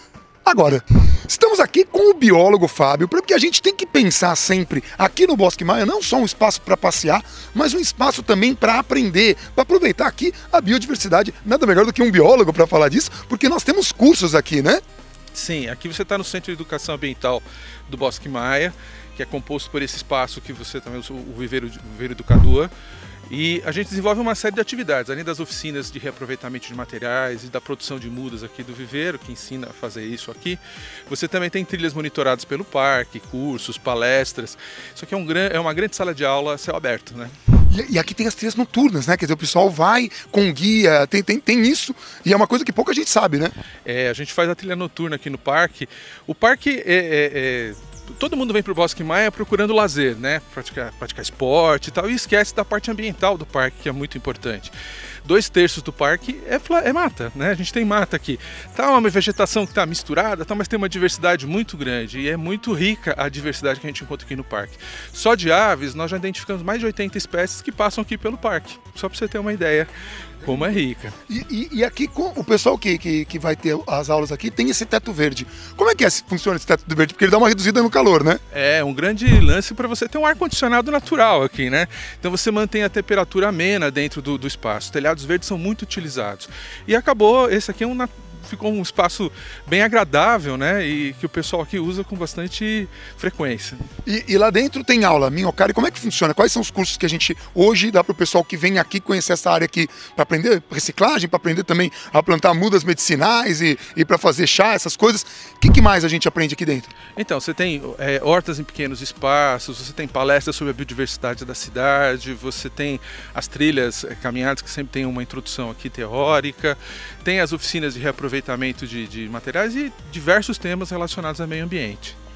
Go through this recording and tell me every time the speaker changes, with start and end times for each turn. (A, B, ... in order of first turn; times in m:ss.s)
0:00.4-0:14.8 A
0:15.3-0:22.7 B
0:23.3-0:37.3 B
0:37.7-0:43.5 A
0:43.8-0:54.7 B
0:55.2-1:09.9 B
1:10.4-1:11.2 B
1:11.3-1:18.4 A
1:18.5-1:33.8 B
1:34.0-1:46.9 A
1:47.2-2:02.2 B